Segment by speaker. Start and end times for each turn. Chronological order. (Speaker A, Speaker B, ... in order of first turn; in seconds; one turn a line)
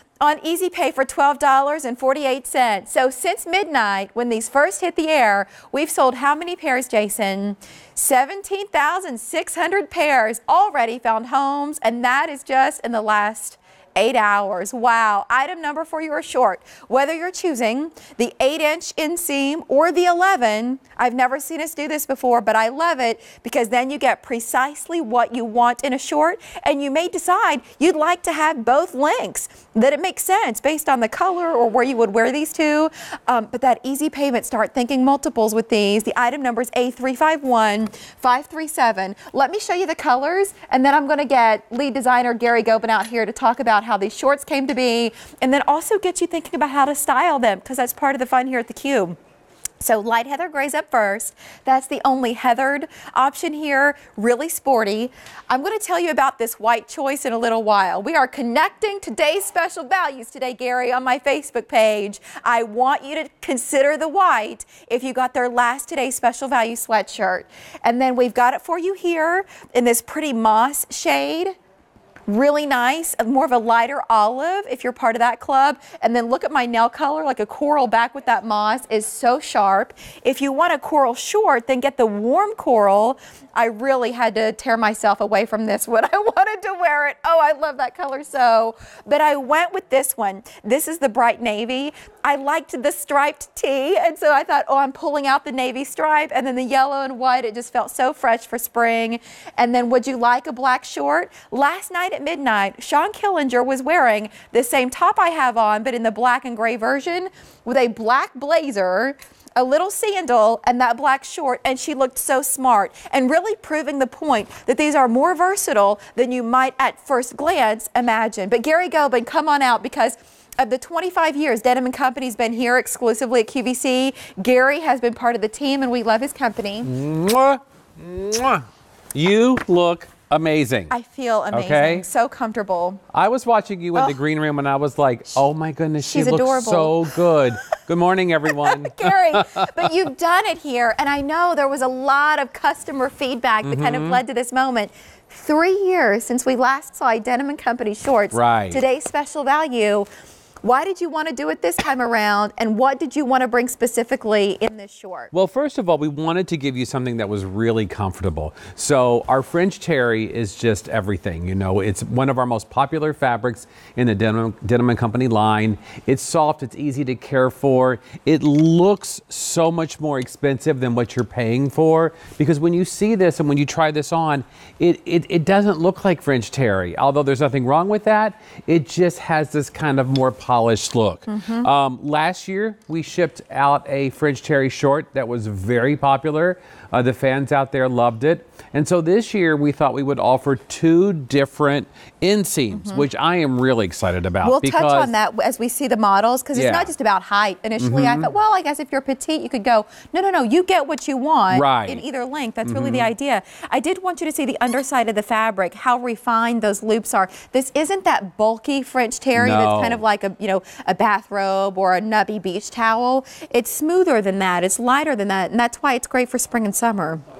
Speaker A: 0.2-49.1
Speaker A: 49.8-71.5
Speaker A: 72.3-126.9
Speaker B: 126.8-130.9
Speaker A: 130.9-133.0
Speaker B: 131.5-132.1
Speaker B: 133.1-139.8
Speaker A: 136.0-137.1
Speaker A: 138.5-150.1
Speaker B: 143.6-144.2
Speaker B: 148.3-148.8
Speaker A: 150.6-155.3
Speaker B: 155.3-195.1
Speaker A: 181.3-181.7
Speaker A: 192.7-193.1
Speaker A: 194.4-217.2
Speaker B: 196.5-196.9
Speaker B: 197.8-198.3
Speaker B: 201.5-202.0
Speaker B: 202.6-203.1
Speaker B: 209.3-210.0